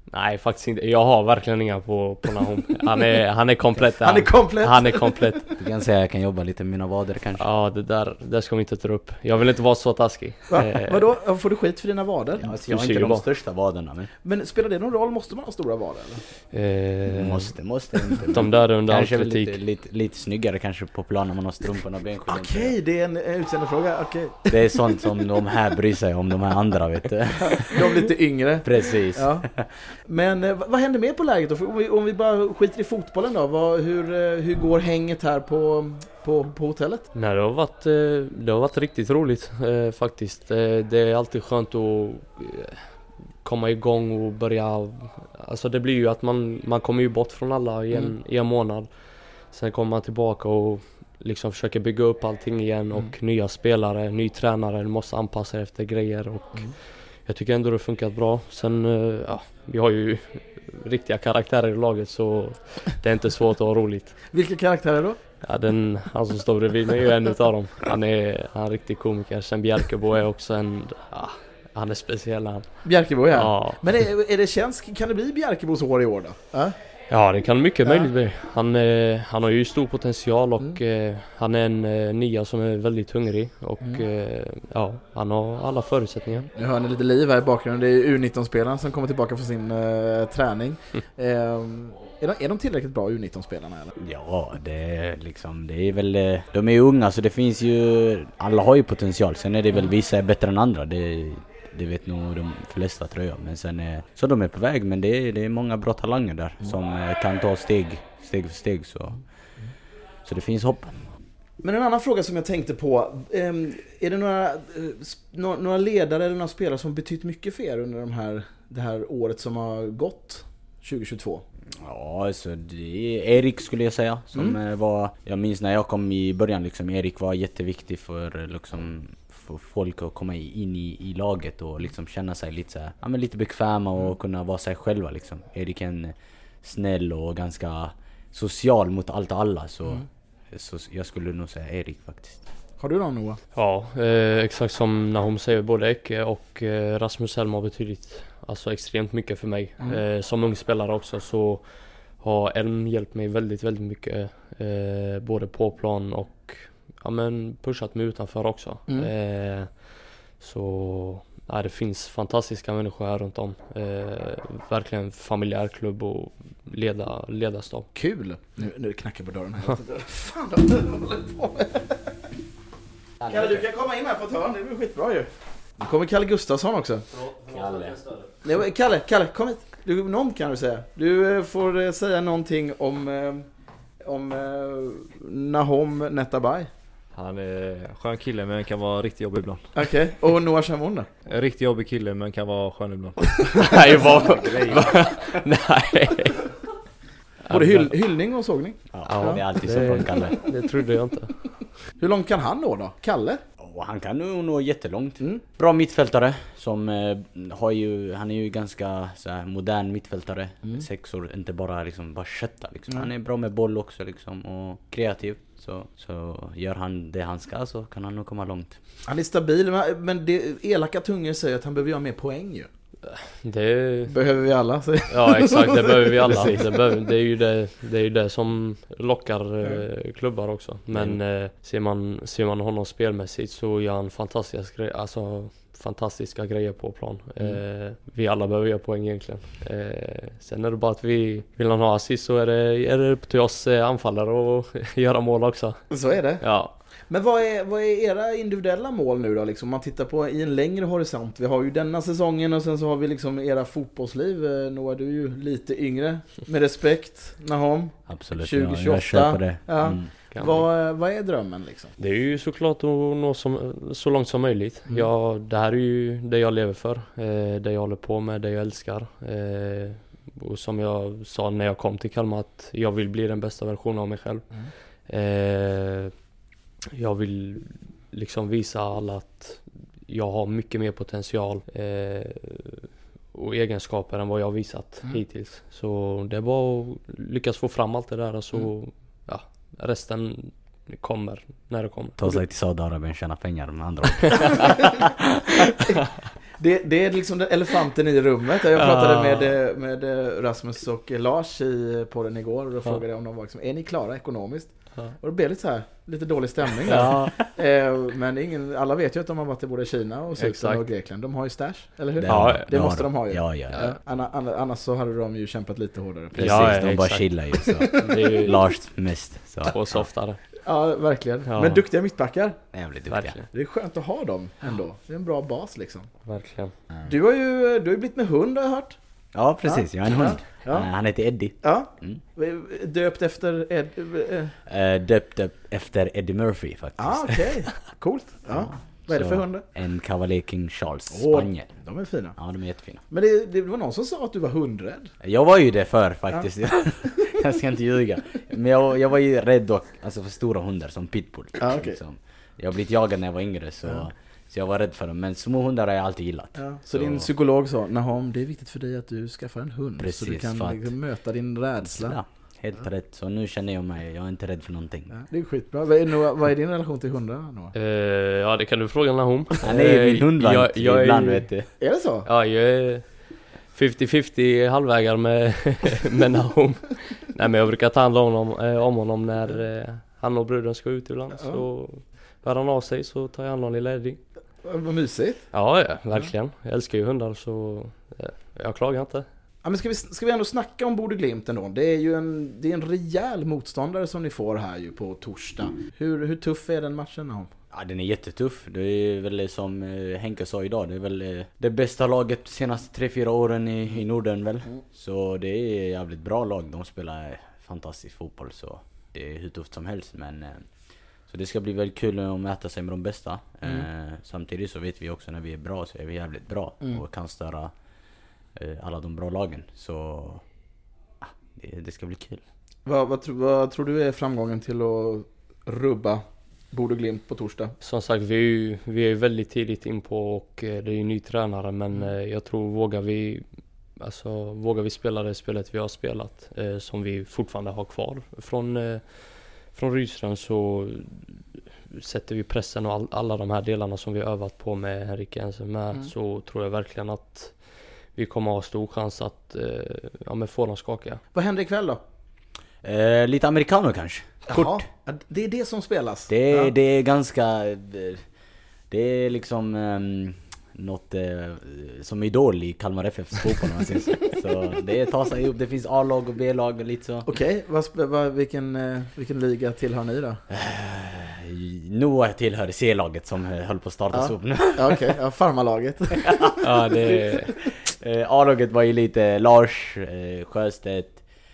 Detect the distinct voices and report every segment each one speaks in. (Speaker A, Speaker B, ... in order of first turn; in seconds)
Speaker A: 0.1-5.4, 7.4-11.1, 12.7-13.2, 16.5-17.5, 18.1-19.6, 37.1-42.9, 43.4-48.9, 49.5-56.7, 57.2-64.2, 65.4-73.8, 77.1-86.5, 143.5-151.6, 152.2-159.7, 160.4-167.9, 193.4-196.5, 197.4-197.9, 199.1-201.4, 223.1-224.2, 225.1-246.7, 260.3-260.6, 262.0-274.5, 275.1-276.1, 276.9-292.4, 298.7-299.5, 306.9-307.3, 310.4-310.9, 312.2-312.7, 316.4-317.3, 317.8-318.6, 319.6-320.4, 321.4-321.8, 323.1-323.5, 326.2-326.7, 367.7-371.7, 372.2-373.1, 373.7-384.2, 385.5-389.2, 427.8-433.4, 434.0-439.0, 439.7-441.2, 441.9-447.5, 448.1-451.2, 476.6-477.5
Speaker B: 3.8-5.6, 10.5-12.5, 14.2-16.2, 22.3-25.0, 27.4-29.5, 30.0-37.1, 64.3-65.2, 72.8-76.7, 77.8-78.1, 86.5-93.9, 111.6-121.4, 142.8-143.4, 167.9-172.1, 173.2-177.1, 178.4-183.4, 184.0-186.7, 189.7-191.1, 197.5-199.4, 202.0-203.4, 219.1-222.7, 224.1-226.6, 245.9-246.4, 247.1-261.9, 296.6-316.7, 317.6-318.1, 320.6-322.6, 323.5-326.1, 327.0-329.0, 329.6-330.9, 331.6-334.5, 337.0-339.6, 341.1-342.4, 343.0-345.1, 351.6-352.0, 356.6-362.2, 365.1-367.7, 371.8-372.2, 381.4-381.6, 384.6-385.4, 389.6-397.5, 422.9-427.7, 451.3-452.0, 454.5-456.7, 467.2-470.4, 474.1-476.8
Speaker C: 5.6-7.4, 12.4-14.1, 17.1-22.7, 24.5-27.9, 28.6-29.7, 94.0-109.2, 110.2-110.9, 121.8-142.4, 173.2-173.6, 177.4-178.0, 198.9-200.4, 203.6-218.8, 226.3-226.5, 230.9-231.2, 258.1-260.1, 292.2-295.1, 306.9-307.5, 312.2-313.8, 316.3-320.1, 322.7-323.4, 329.3-332.2, 334.6-337.5, 338.5-341.7, 342.3-343.0, 345.2-357.3, 360.0-360.9, 361.9-365.1, 369.6-371.7, 397.7-410.6, 411.3-417.7, 418.6-420.4, 421.2-422.4, 452.8-454.8, 456.3-458.2, 458.9-467.3, 470.5-475.2, 476.2-481.2
Speaker D: 177.4-177.9, 187.1-189.7, 191.2-193.8